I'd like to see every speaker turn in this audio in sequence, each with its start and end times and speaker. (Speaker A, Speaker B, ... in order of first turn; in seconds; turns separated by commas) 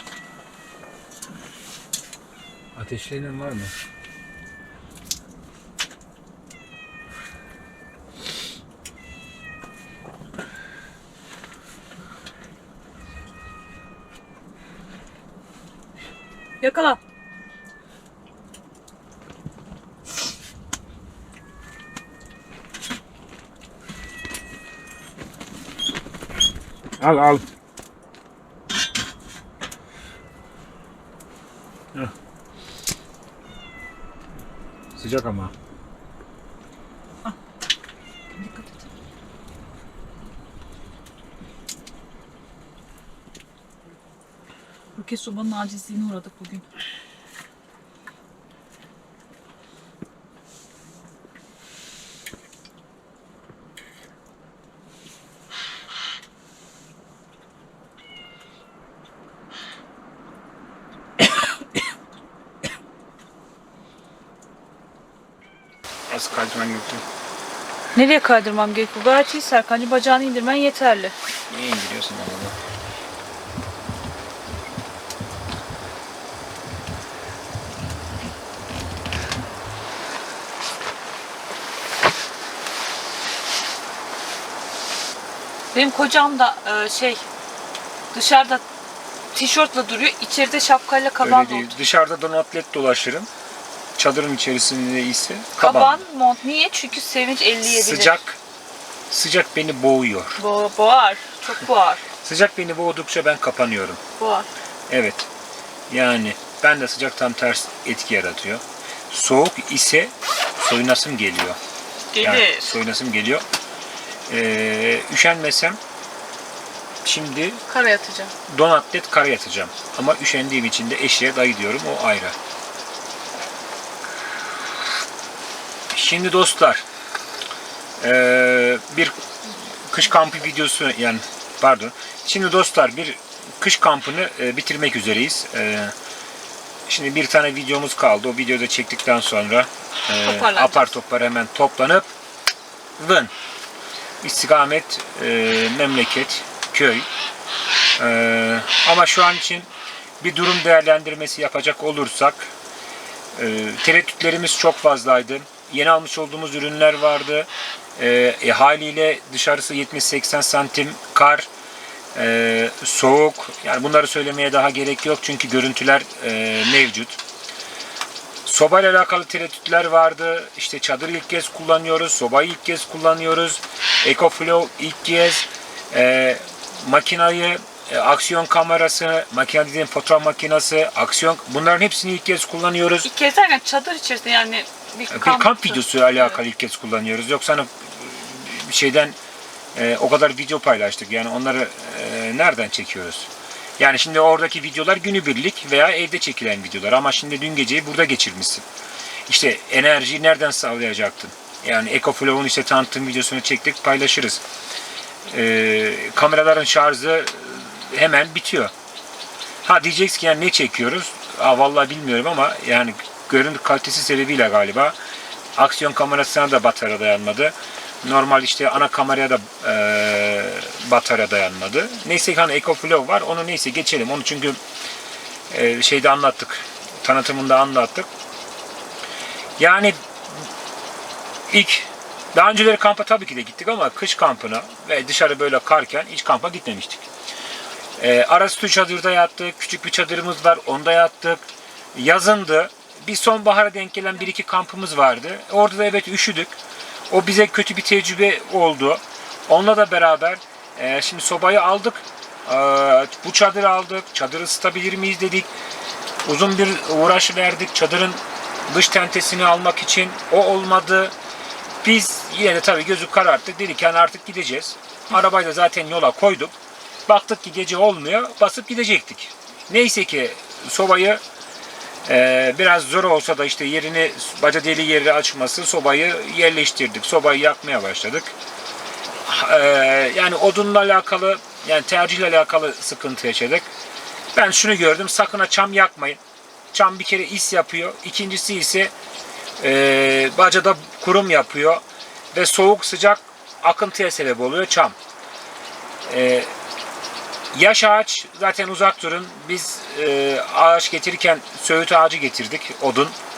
Speaker A: 2.8-3.7, Speaker B: 16.6-17.0, Speaker A: 27.0-27.4, Speaker A: 35.0-35.5, Speaker B: 38.3-38.9, Speaker B: 44.9-46.7, Speaker A: 66.1-67.0, Speaker B: 67.9-71.1, Speaker A: 71.5-72.6, Speaker B: 85.7-87.3, Speaker B: 88.1-88.6, Speaker B: 89.3-91.7, Speaker A: 91.2-93.3, Speaker A: 94.0-96.0, Speaker B: 95.6-98.2, Speaker A: 97.6-98.4, Speaker A: 99.1-100.4, Speaker B: 100.4-102.0, Speaker A: 102.2-104.0, Speaker B: 104.2-104.5, Speaker A: 104.9-105.3, Speaker A: 105.9-111.6, Speaker B: 112.1-112.8, Speaker A: 112.2-113.5, Speaker A: 114.3-115.8, Speaker A: 117.0-117.6, Speaker B: 117.7-118.3, Speaker A: 118.5-122.3, Speaker A: 125.9-126.8, Speaker A: 128.0-135.9, Speaker A: 136.9-142.1, Speaker B: 140.2-140.9, Speaker A: 143.0-143.3, Speaker A: 144.2-147.1, Speaker A: 148.0-149.7, Speaker A: 150.2-152.5, Speaker A: 153.3-161.5, Speaker A: 162.1-167.2, Speaker A: 168.4-183.1, Speaker B: 183.0-186.3, Speaker A: 185.1-189.2, Speaker A: 189.7-198.7, Speaker A: 199.3-204.4, Speaker A: 205.3-208.7, Speaker A: 209.6-214.9, Speaker A: 215.6-224.6, Speaker A: 225.5-228.1, Speaker A: 229.6-230.0, Speaker A: 231.5-237.1, Speaker A: 238.0-246.6, Speaker A: 247.1-255.5, Speaker A: 256.2-261.1, Speaker A: 261.8-266.6, Speaker A: 267.1-271.2, Speaker A: 272.0-278.3, Speaker A: 279.2-283.7, Speaker A: 284.3-286.2, Speaker A: 286.7-288.9, Speaker A: 289.6-294.9, Speaker A: 296.1-296.5, Speaker A: 297.5-303.1